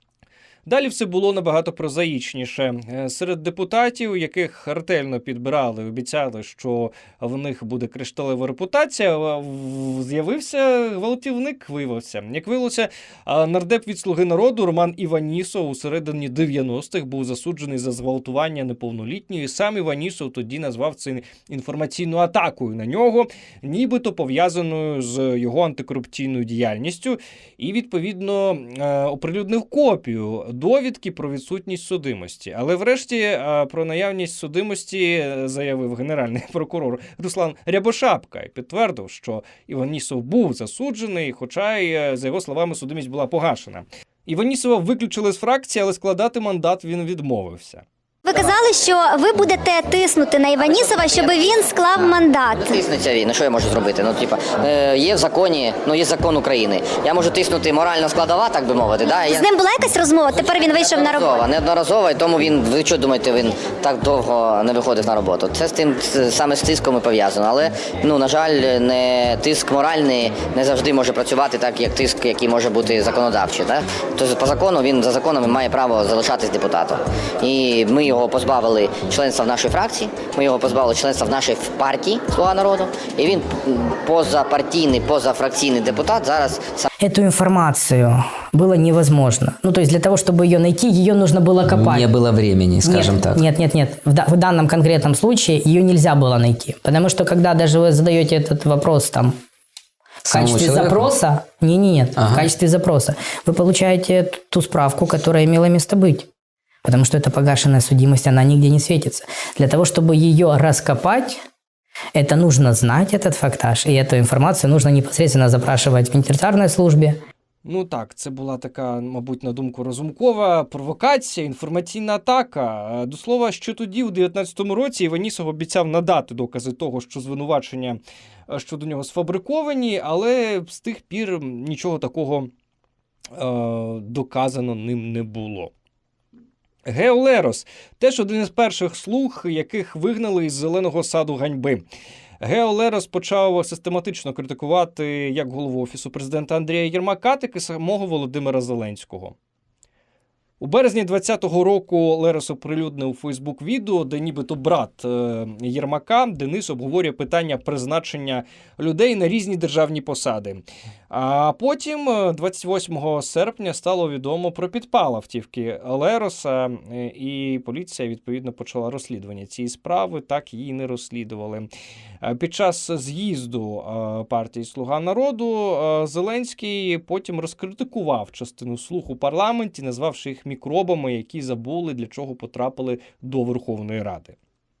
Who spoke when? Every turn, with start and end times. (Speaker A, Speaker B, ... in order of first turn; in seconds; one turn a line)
Speaker A: 0.7-47.8
Speaker B: 48.2-52.8
Speaker C: 52.6-59.5
Speaker B: 59.3-61.3
Speaker C: 61.0-86.9
Speaker D: 87.0-92.1
Speaker E: 91.7-93.4
Speaker D: 92.8-99.3
Speaker D: 100.2-106.3
Speaker E: 100.3-101.0
Speaker E: 102.2-102.5
Speaker D: 106.8-111.4
Speaker D: 112.2-117.2
Speaker A: 117.6-132.5
Speaker A: 133.3-135.7
Speaker A: 136.8-141.8
Speaker A: 142.4-149.3
Speaker A: 150.6-171.7
Speaker A: 172.2-184.3